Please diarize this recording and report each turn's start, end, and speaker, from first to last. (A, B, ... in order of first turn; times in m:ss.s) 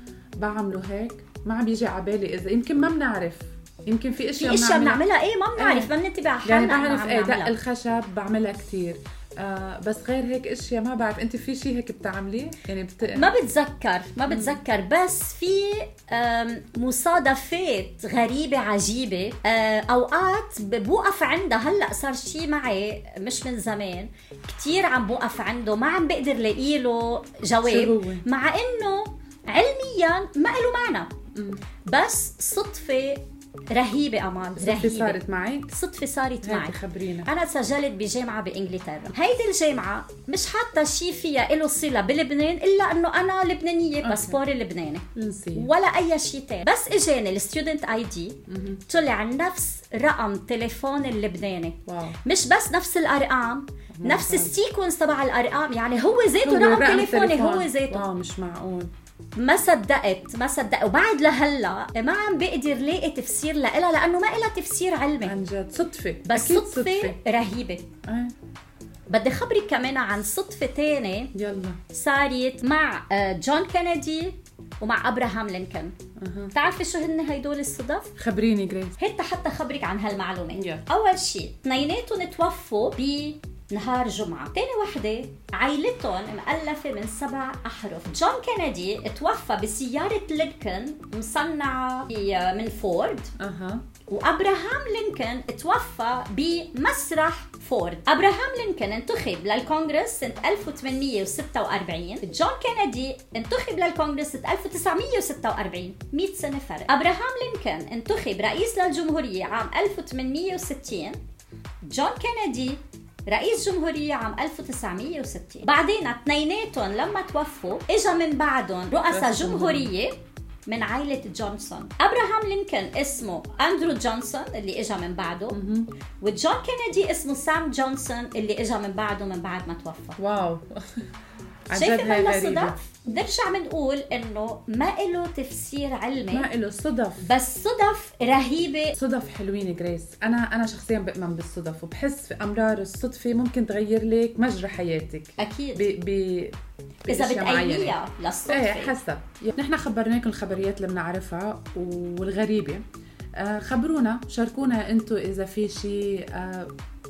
0:00.4-0:05.0 A
0:04.4-0:07.5 B
0:05.6-0:05.9 A
0:06.4-0:13.3 A
0:13.1-0:31.1 B
0:14.3-0:14.6 A
0:27.6-0:28.2 A
0:31.3-0:31.6 A
0:31.8-0:35.2 B
0:34.6-0:35.7 A
0:35.7-0:45.0 B
0:36.4-0:37.3 A
0:44.0-0:44.4 A
0:45.1-0:45.7 A
0:45.5-0:58.0 B
0:48.5-0:48.8 A
0:51.8-0:52.2 A
0:53.9-0:54.5 A
0:56.4-0:58.9 A
0:59.4-1:05.3 B
1:05.2-1:07.2 A
1:06.2-1:07.8 B
1:08.1-1:08.3 A
1:09.1-1:11.3 B
1:11.3-1:11.8 A
1:11.9-1:15.9 B
1:16.2-1:16.5 A
1:16.5-1:18.1 B
1:18.2-1:19.0 A
1:19.0-1:33.3 B
1:20.5-1:20.8 A
1:33.4-1:33.8 A
1:34.1-1:51.2 B
1:51.8-2:05.6 B
1:59.1-1:59.9 A
2:05.5-2:05.9 A
2:06.2-2:10.2 B
2:10.2-2:10.8 A
2:11.7-2:12.8 A
2:11.7-2:16.5 B
2:16.3-2:17.3 A
2:17.2-2:19.0 B
2:19.0-2:28.0 A
2:25.4-2:25.9 B
2:27.1-2:28.9 B
2:28.5-2:32.8 A
2:33.4-2:36.7 A